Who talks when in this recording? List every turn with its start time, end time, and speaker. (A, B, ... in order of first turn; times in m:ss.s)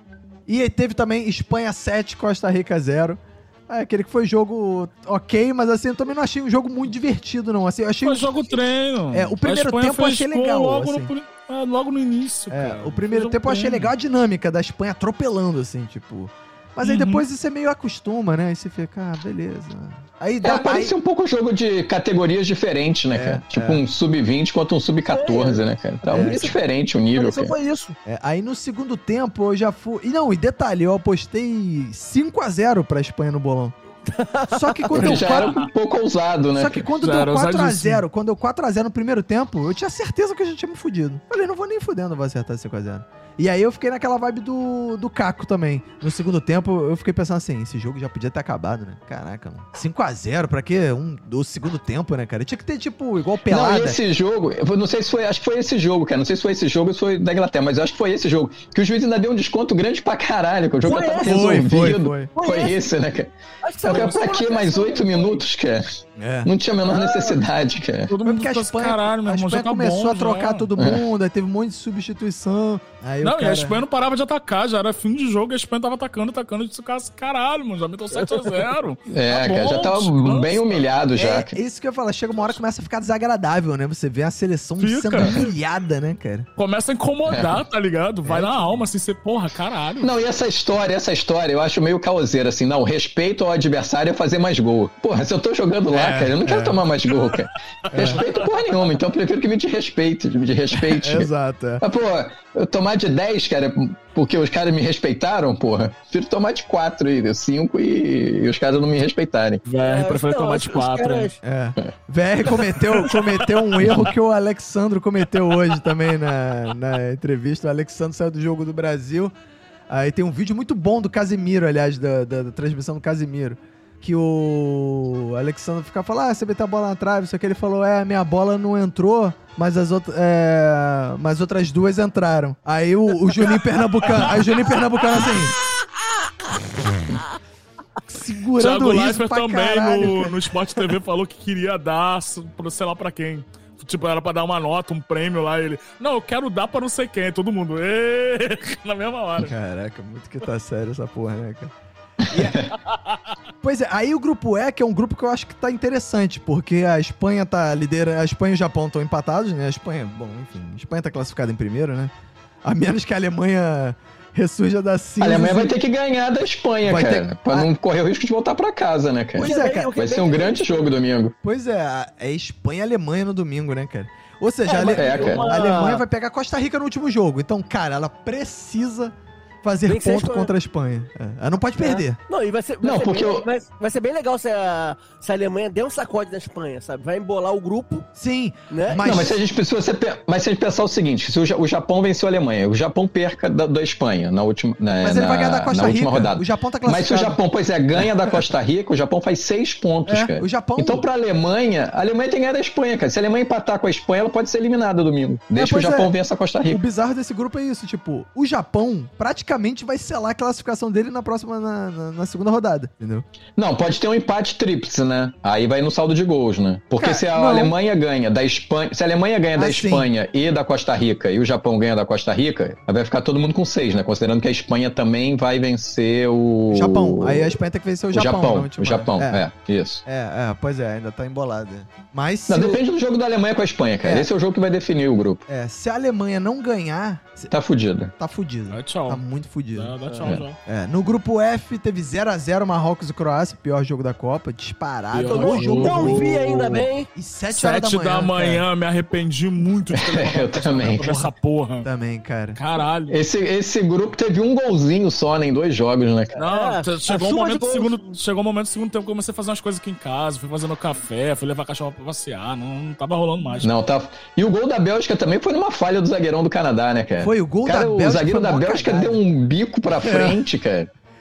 0:00.5-0:08.6 A
0:08.0-0:13.9 B
0:09.1-0:11.1 A
0:12.5-0:20.9 A
0:16.8-0:17.2 B
0:20.4-0:27.5 C
0:23.1-0:23.8 A
0:25.1-0:25.6 D
0:26.0-0:26.6 A
0:27.1-0:28.0 D
0:28.0-0:33.8 A
0:34.1-0:34.9 D
0:34.5-0:35.6 A
0:34.9-0:36.9 C
0:35.0-0:35.7 B
0:36.5-0:54.0 A
0:37.0-0:38.0 B
0:53.5-1:03.3 C
1:00.8-1:01.7 D
1:01.2-1:02.3 A
1:02.3-1:02.8 D
1:03.6-1:05.4 D
1:03.8-1:08.1 C
1:06.2-1:06.5 A
1:06.9-1:07.4 D
1:08.1-1:10.7 B
1:08.2-1:13.8 A
1:13.2-1:20.9 B
1:19.1-1:21.6 C
1:21.1-1:26.5 A
1:24.8-1:25.5 B
1:26.6-1:30.1 B
1:27.3-1:27.6 C
1:28.2-1:28.9 A
1:30.0-1:41.3 C
1:35.9-1:36.8 A
1:37.3-1:38.4 B
1:37.9-1:38.2 A
1:40.7-1:41.8 A
1:41.8-1:49.6 C
1:49.6-1:51.3 B
1:49.8-1:51.4 D
1:51.4-1:59.3 A
1:59.9-2:15.5 A
2:14.0-2:14.3 B
2:18.1-2:20.4 A
2:18.6-2:29.5 B
2:29.4-2:31.7 A
2:32.3-2:32.6 A
2:32.3-2:32.7 C
2:32.9-2:33.2 B
2:33.6-2:42.1 A
2:42.6-2:45.8 A
2:45.2-2:51.4 C
2:46.8-2:47.7 A
2:49.4-2:49.9 A
2:49.4-2:50.9 D
2:51.4-3:02.2 A
2:54.6-2:56.0 D
2:54.8-2:55.5 C
2:59.9-3:00.5 D
3:01.8-3:08.1 D
3:02.8-3:03.5 C
3:08.1-3:09.4 A
3:08.7-3:09.0 D
3:09.0-3:26.8 C
3:15.0-3:17.4 A
3:17.9-3:18.4 A
3:20.0-3:21.0 A
3:25.5-3:26.1 A
3:26.6-3:33.2 A
3:33.6-3:47.6 C
3:37.0-3:37.7 A
3:39.5-3:40.1 A
3:46.7-3:49.4 A
3:48.1-3:50.0 C
3:50.0-3:52.8 A
3:52.5-3:55.4 C
3:54.0-3:54.3 A
3:55.5-3:57.5 A
3:57.5-3:58.1 C
3:58.2-3:59.9 A
3:58.7-3:59.2 B
3:59.7-4:00.6 B
4:00.6-4:06.3 A
4:05.1-4:06.9 B
4:05.3-4:07.1 D
4:07.1-4:08.6 A
4:07.5-4:11.9 B
4:09.9-4:11.1 C
4:11.0-4:12.6 A
4:12.5-4:13.2 B
4:13.1-4:16.4 C
4:16.3-4:18.1 D
4:16.4-4:23.7 B
4:23.6-4:30.9 C
4:27.2-4:29.2 A
4:29.9-4:30.5 A